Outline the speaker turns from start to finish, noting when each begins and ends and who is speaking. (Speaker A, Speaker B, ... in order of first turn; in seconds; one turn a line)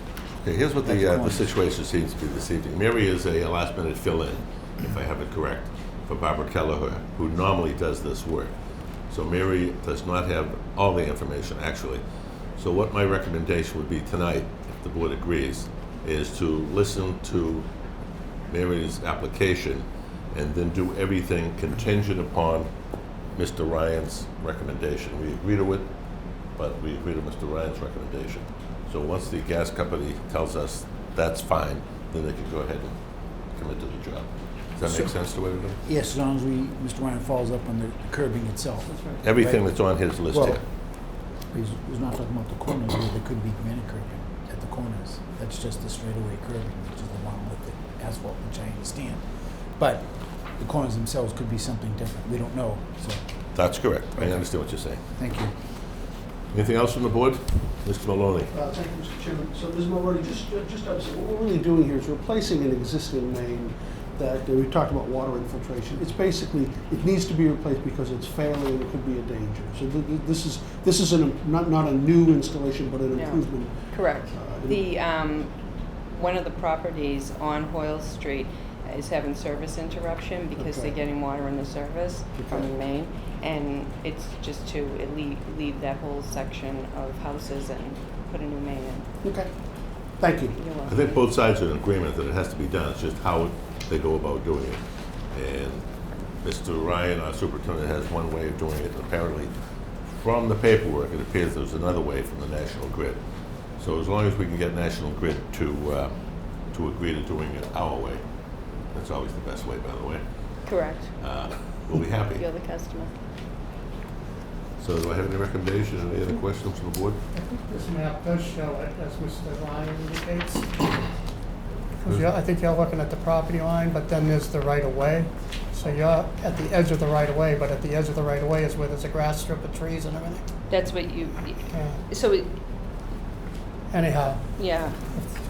Speaker A: 0.4-8.5
Speaker B: 0.8-1.4
Speaker A: 9.1-12.0
Speaker A: 12.6-17.7
Speaker A: 18.5-22.7
Speaker A: 23.3-25.9
Speaker A: 26.6-33.0
Speaker A: 33.5-35.8
Speaker B: 35.8-39.6
Speaker A: 39.2-40.6
Speaker C: 40.3-40.6
Speaker B: 41.5-49.2
Speaker B: 49.8-53.2
Speaker A: 53.5-55.0
Speaker B: 55.2-55.5
Speaker A: 56.5-58.5
Speaker C: 58.5-74.8
Speaker D: 73.1-75.5
Speaker D: 76.1-89.0
Speaker C: 80.6-81.0
Speaker C: 82.3-82.7
Speaker C: 89.2-89.5
Speaker C: 90.2-90.6
Speaker D: 90.6-91.2
Speaker A: 90.8-94.8
Speaker A: 95.3-95.8
Speaker A: 96.4-99.5
Speaker A: 100.1-103.2
Speaker A: 103.8-106.1
Speaker A: 106.7-108.2
Speaker A: 108.9-110.2
Speaker D: 110.7-111.1
Speaker A: 111.2-112.4
Speaker D: 112.3-113.1
Speaker A: 114.8-117.2
Speaker E: 117.3-120.8
Speaker E: 122.0-130.4
Speaker D: 130.7-132.5
Speaker E: 131.7-132.0
Speaker E: 133.9-134.4
Speaker D: 134.6-135.0